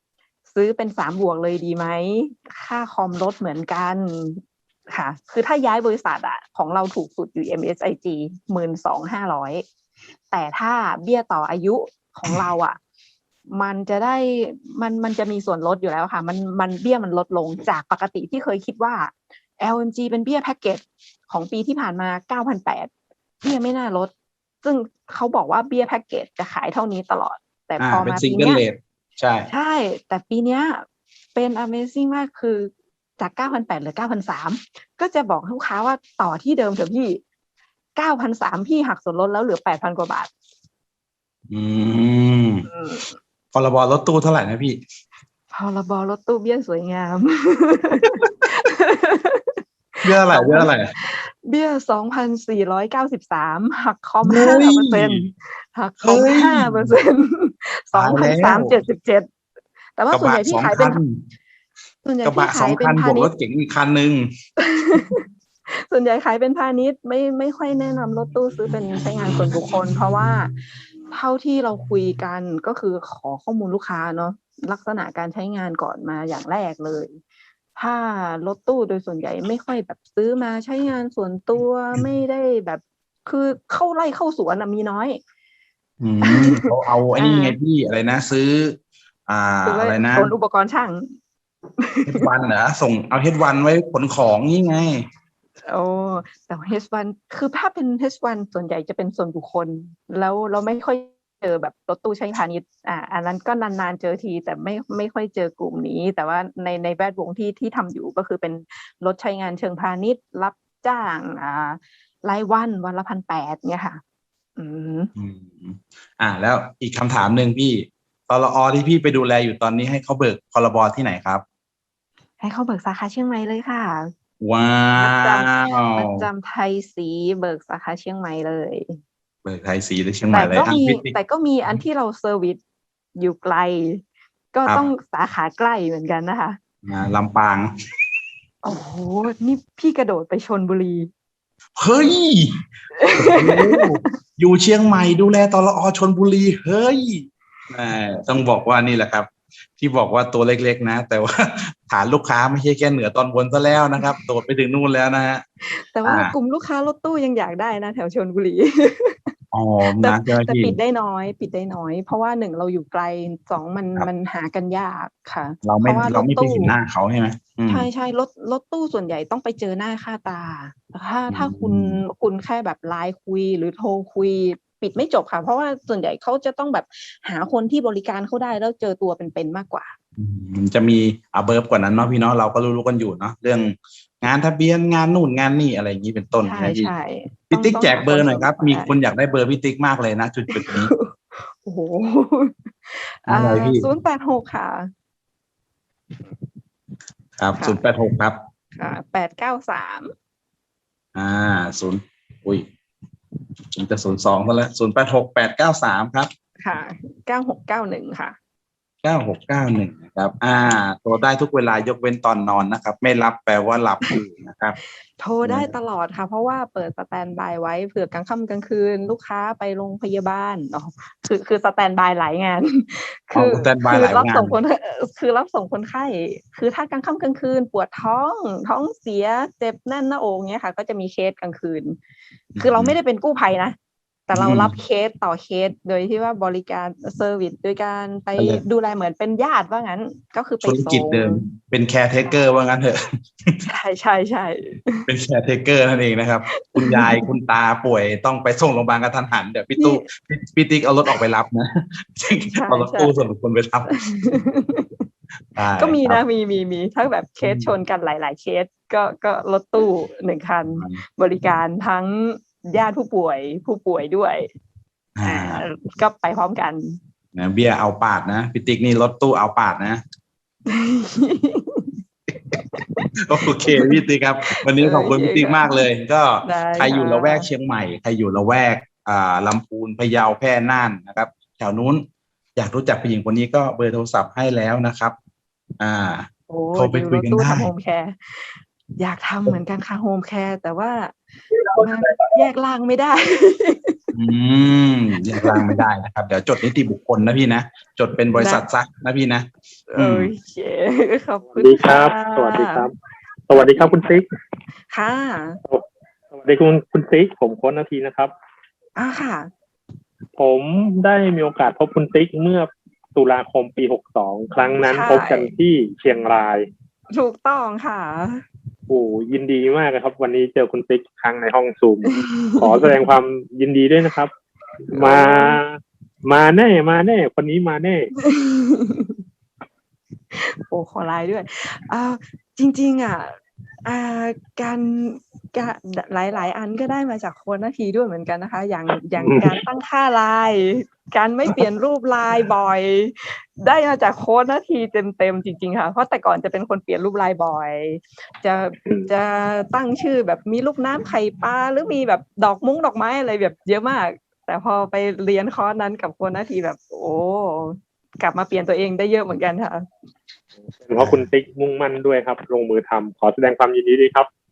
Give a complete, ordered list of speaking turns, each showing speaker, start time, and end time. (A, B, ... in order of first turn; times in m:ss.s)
0:00.5-0:09.6 A
0:10.3-0:12.8 A
0:13.5-0:22.9 A
0:23.4-0:24.1 A
0:24.6-0:28.6 A
0:27.8-0:29.5 B
0:29.5-0:37.2 A
0:38.0-0:40.3 A
0:41.5-0:42.7 B
0:42.7-0:43.1 A
0:43.5-0:44.8 B
0:45.5-0:49.6 A
0:50.0-0:50.9 B
0:50.2-0:59.3 A
0:54.2-0:55.3 B
0:56.0-0:57.0 B
0:57.9-0:58.8 B
1:00.0-1:01.0 A
1:00.1-1:01.2 B
1:02.0-1:03.3 A
1:02.2-1:04.3 B
1:04.6-1:10.6 A
1:11.1-1:17.2 A
1:17.8-1:25.2 A
1:26.0-1:30.3 B
1:26.2-1:27.6 A
1:29.6-1:31.1 A
1:31.8-1:32.3 A
1:32.1-1:35.0 B
1:35.7-1:54.0 A
1:54.6-1:55.1 A
1:55.2-2:01.4 B
2:02.4-2:04.1 A
2:04.4-2:06.3 B
2:05.0-2:09.0 A
2:09.4-2:11.1 B
2:10.3-2:12.6 A
2:13.2-2:14.0 A
2:14.5-2:16.6 A
2:16.8-2:17.7 B
2:18.6-2:21.1 A
2:21.8-2:22.6 B
2:23.0-2:24.1 A
2:23.1-2:29.3 B
2:29.8-2:35.4 B
2:35.6-2:39.3 A
2:36.0-2:36.3 B
2:39.5-2:40.8 B
2:39.9-2:46.7 A
2:45.6-2:47.9 B
2:47.7-3:00.0 A
2:51.3-2:52.0 B
3:00.2-3:06.9 B
3:06.4-3:08.9 A
3:07.5-3:10.9 B
3:10.5-3:14.9 A
3:13.3-3:13.9 B
3:17.4-3:18.4 B
3:18.8-3:20.1 A
3:21.2-3:22.7 B
3:23.7-3:26.3 B
3:26.6-3:28.4 A
3:29.0-3:34.8 B
3:35.2-3:52.0 A
3:35.4-3:35.7 B
3:43.3-3:44.6 B
3:52.6-3:53.0 B
3:52.6-3:53.8 A
3:54.3-4:01.4 A
3:54.3-3:54.7 B
3:58.4-3:58.6 B
4:00.6-4:03.6 B
4:03.7-4:05.1 A
4:05.1-4:14.4 B
4:06.5-4:07.3 A
4:09.8-4:10.1 A
4:12.5-4:13.1 A
4:13.9-4:15.0 A
4:15.6-4:16.2 B
4:15.8-4:24.4 A
4:17.4-4:17.7 B
4:25.2-4:25.6 B
4:25.2-4:27.0 A
4:27.4-4:30.0 B
4:30.7-4:31.9 A
4:32.5-4:33.1 A
4:33.2-4:42.0 B
4:33.6-4:34.0 A
4:34.5-4:35.8 A
4:36.4-4:37.5 A
4:42.6-4:45.2 B
4:45.8-4:47.7 B
4:46.5-4:51.2 A
4:51.8-4:54.0 A
4:54.1-5:00.3 B
4:55.4-4:55.8 A
4:58.4-4:58.6 A
4:59.9-5:02.8 A
5:01.6-5:02.9 C
5:03.5-5:04.2 C
5:04.9-5:05.6 A
5:05.7-5:08.3 C
5:09.0-5:09.5 A
5:10.4-5:16.6 C
5:14.8-5:15.5 A
5:17.1-5:18.4 A
5:18.9-5:24.3 C
5:22.1-5:22.8 A
5:24.9-5:25.8 C
5:24.9-5:25.6 A
5:26.3-5:28.1 C
5:28.2-5:29.2 A
5:30.3-5:59.9 A
5:39.2-5:39.6 C
6:00.7-6:04.3 C
6:01.0-6:01.2 B